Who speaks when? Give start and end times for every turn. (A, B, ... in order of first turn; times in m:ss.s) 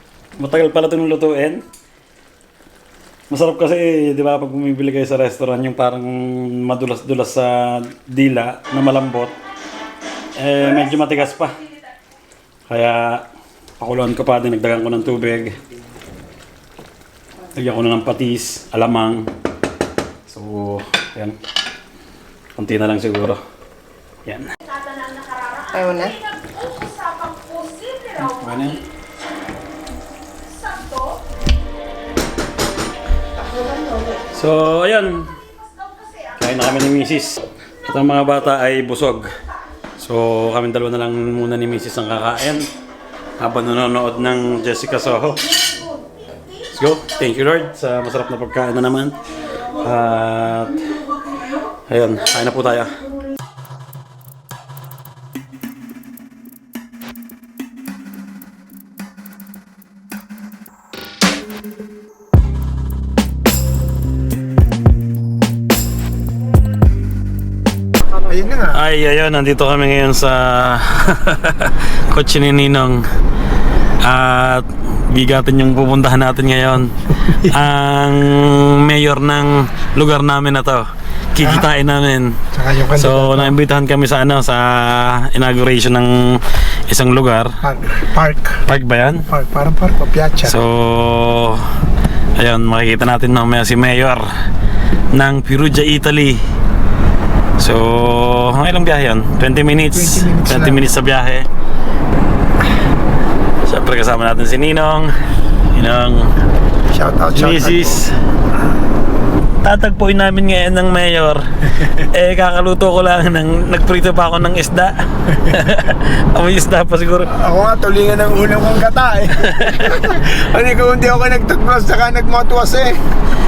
0:00.4-0:01.6 A
0:03.3-0:09.3 A
0:10.4-0:11.6 A
0:12.7-0:13.2 A
0:13.8-0:15.6 A
0:17.5-0:19.3 A
0:20.3-0:21.4 A
0:22.6-0:23.4 A
0:24.2-0:24.5 A
0:24.7-0:28.2 B
0:28.2-0:28.8 A
0:30.5-0:31.0 B
0:33.4-0:34.2 B
0:34.3-0:35.4 A
0:36.4-0:39.3 A
0:40.0-0:42.7 A
0:43.4-0:45.5 A
0:46.7-0:49.2 A
0:49.8-0:50.9 A
0:51.9-0:52.9 A
1:08.2-1:08.8 C
1:08.7-1:13.0 A
1:14.0-1:27.6 A
1:21.4-1:21.7 C
1:22.5-1:23.6 C
1:27.6-1:28.6 C
1:28.6-1:29.3 A
1:29.3-1:30.6 C
1:30.4-1:31.7 A
1:32.4-1:34.3 A
1:35.1-1:36.4 A
1:37.6-1:41.5 A
1:39.9-1:40.8 C
1:43.6-1:45.1 A
1:45.7-1:46.3 A
1:46.9-1:48.0 C
1:47.3-1:48.2 A
1:49.6-1:57.3 A
1:57.3-2:03.0 C
1:59.4-2:00.0 A